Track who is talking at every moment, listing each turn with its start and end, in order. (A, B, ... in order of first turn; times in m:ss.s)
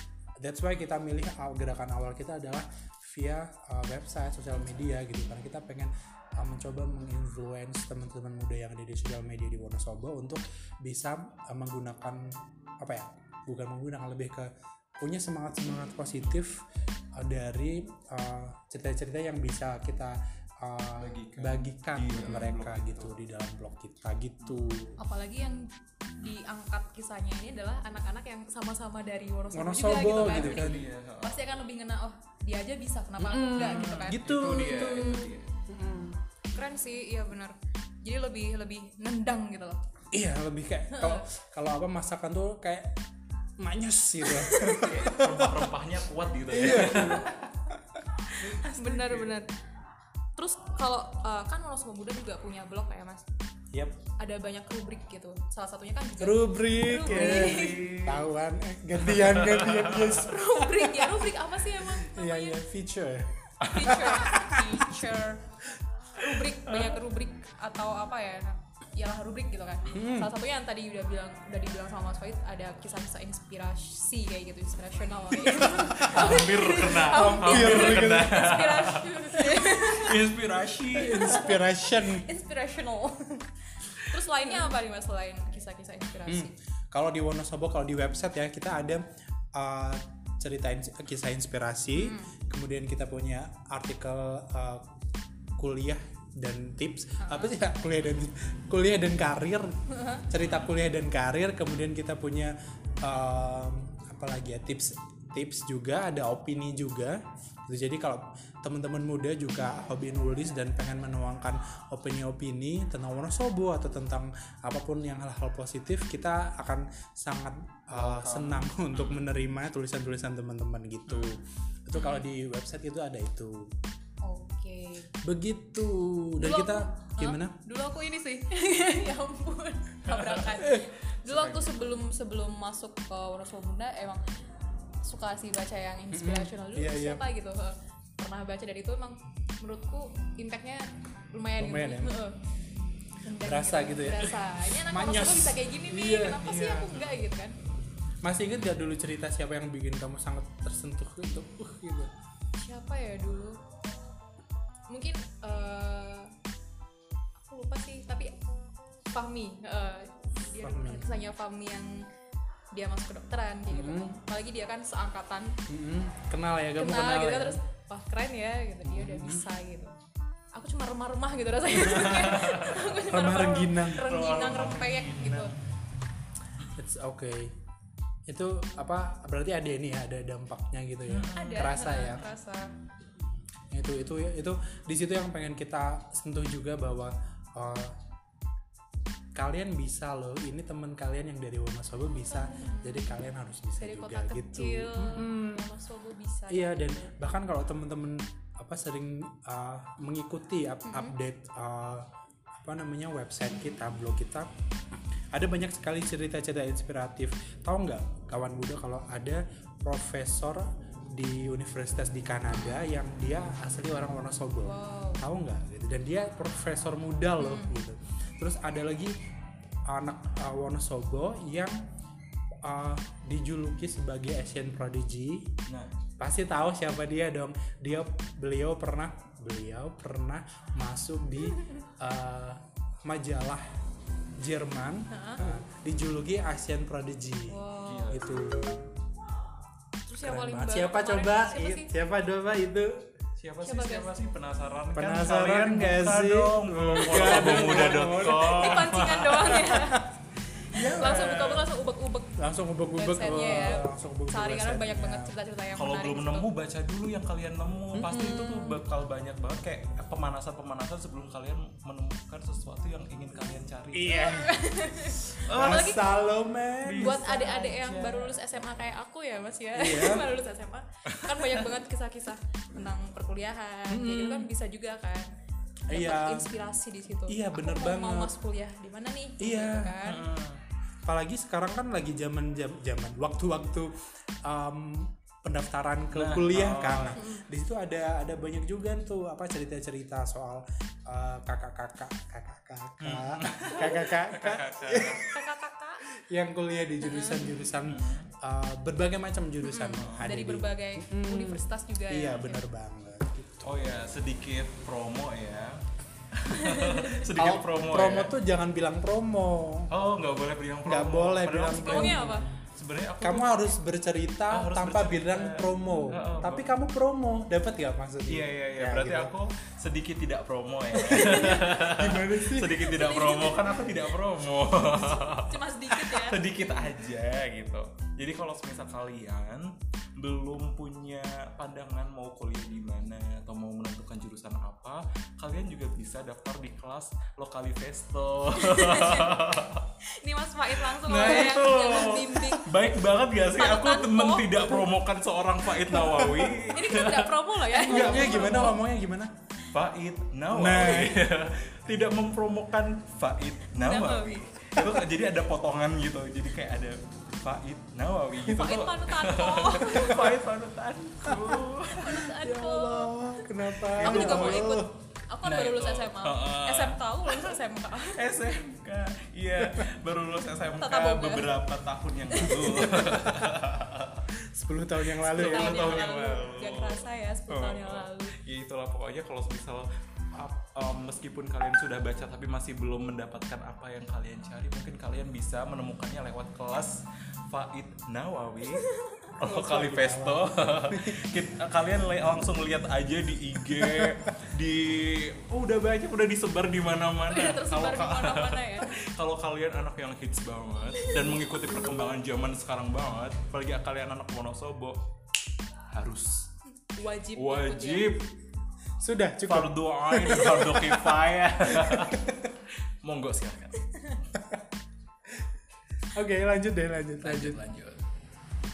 0:00.4-0:16.6 A
0:17.2-0:25.0 A
0:21.0-0:23.1 B
0:22.2-0:22.5 C
0:25.0-0:35.3 C
0:29.5-0:30.8 A
0:30.1-0:31.4 B
0:33.2-0:36.2 A
0:33.6-0:35.5 B
0:36.6-0:39.8 C
0:40.1-0:43.0 A
0:40.9-0:41.2 C
0:43.6-0:45.7 A
0:44.7-0:47.4 B
0:46.5-0:47.3 A
0:48.3-0:49.5 C
0:48.4-0:49.0 A
0:50.4-0:53.2 C
0:53.7-0:54.0 A
0:54.2-0:57.9 C
0:56.2-1:01.3 A
0:57.0-0:58.3 B
0:59.0-1:00.2 B
1:00.2-1:02.6 C
1:01.9-1:05.0 A
1:03.7-1:05.4 C
1:06.2-1:20.3 C
1:09.9-1:10.3 A
1:15.7-1:16.4 A
1:15.8-1:21.6 B
1:17.1-1:18.5 A
1:20.9-1:22.3 A
1:21.0-1:26.5 C
1:26.3-1:34.9 A
1:31.9-1:32.3 C
1:35.6-2:03.7 A
1:37.2-1:37.5 C
1:39.9-1:40.2 C
1:40.4-1:40.7 B
1:57.9-1:59.2 B
2:01.1-2:01.4 B
2:02.0-2:02.2 C
2:04.2-2:05.1 C
2:05.2-2:07.6 A
2:06.4-2:14.2 C
2:10.1-2:10.5 B
2:10.6-2:11.6 A
2:15.0-2:22.4 C
2:16.1-2:17.2 A
2:21.6-2:22.2 A
2:23.2-2:27.6 C
2:23.4-2:27.0 A
2:28.2-2:32.1 A
2:32.6-2:33.6 C
2:34.9-2:36.3 C
2:37.4-2:38.3 C
2:39.1-2:42.1 C
2:40.6-2:41.1 A
2:42.7-2:45.6 C
2:43.7-2:44.2 A
2:45.7-2:47.6 A
2:46.8-2:49.9 C
2:48.8-2:49.5 A
2:50.5-2:55.5 C
2:51.8-2:52.9 B
2:53.0-2:54.1 A
2:54.0-2:55.5 B
2:56.8-2:57.6 A
2:58.3-3:02.3 A
3:01.1-3:01.7 B
3:01.3-3:02.7 C
3:03.7-3:08.0 A
3:09.4-3:15.6 A
3:12.3-3:13.0 C
3:13.8-3:17.1 C
3:16.5-3:24.5 A
3:20.9-3:21.2 C
3:25.3-3:39.2 A
3:32.5-3:32.9 C
3:34.6-3:35.2 C
3:37.4-3:37.8 C
3:39.9-3:41.8 A
3:42.6-3:45.5 A
3:46.2-3:53.7 A
3:54.4-3:58.9 A
3:55.1-3:55.4 C
3:57.5-3:58.2 C
3:57.8-3:58.4 B
4:00.1-4:01.9 C
4:00.2-4:03.1 A
4:03.4-4:09.7 B
4:03.6-4:04.1 C
4:04.9-4:10.0 A
4:07.0-4:10.0 C
4:10.7-4:11.3 A
4:10.7-4:11.7 B
4:10.8-4:12.4 C
4:12.4-4:15.3 A
4:13.0-4:16.5 C
4:15.8-4:24.3 B
4:18.0-4:18.8 C
4:23.9-4:27.3 A
4:24.1-4:26.2 C
4:25.5-4:26.0 B
4:26.8-4:28.6 B
4:27.0-4:35.3 C
4:29.7-4:30.3 A
4:31.1-4:31.7 B
4:33.9-4:34.5 A
4:35.9-4:36.5 A
4:35.9-4:40.2 C
4:37.3-4:38.3 A
4:39.4-4:40.0 A
4:40.0-4:40.6 B
4:41.1-4:43.9 A
4:44.4-4:55.3 A
4:46.1-4:47.2 B
4:47.2-4:47.4 C
4:53.0-4:55.3 B
4:55.3-4:56.0 C
4:56.2-5:03.8 A
4:57.0-4:57.5 C
4:57.9-4:58.3 B
4:59.6-5:02.6 C
4:59.9-5:00.3 B
5:03.6-5:05.8 B
5:06.3-5:08.4 B
5:06.5-5:07.3 C
5:07.3-5:09.9 A
5:09.9-5:13.7 B
5:10.8-5:12.6 A
5:11.7-5:12.5 C
5:13.2-5:19.4 A
5:14.5-5:16.7 B
5:18.3-5:39.9 B
5:21.0-5:21.7 C
5:21.2-5:22.9 A
5:22.8-5:24.0 C
5:24.9-5:26.4 C
5:38.6-5:39.4 C
5:40.1-5:42.7 C
5:40.9-5:48.8 B
5:43.6-5:44.8 C
5:45.9-5:46.6 A
5:46.7-5:48.8 C
5:47.8-5:49.3 A
5:49.7-6:02.2 B
5:50.5-5:51.3 A
5:53.8-5:54.5 C
5:54.8-5:55.0 A
5:58.4-6:00.3 C
6:01.3-6:01.6 A
6:01.9-6:03.4 C
6:02.1-6:04.9 A
6:04.0-6:04.8 B
6:04.0-6:08.2 C
6:05.4-6:14.3 B
6:09.6-6:09.9 A
6:10.8-6:11.5 C
6:12.3-6:13.2 C
6:12.7-6:13.4 A
6:14.4-6:16.1 A
6:15.2-6:45.0 B
6:15.3-6:18.4 C
6:28.8-6:29.3 C
6:29.4-6:31.2 A
6:33.8-6:34.2 A
6:37.3-6:38.9 C
6:41.0-6:41.4 C
6:45.9-6:46.5 B
6:46.9-6:48.2 C
6:47.4-6:48.3 B
6:49.0-6:51.2 A
6:49.5-6:52.3 B
6:51.7-6:52.4 A
6:53.0-6:53.9 B
6:56.1-6:57.6 A
6:57.2-6:58.0 B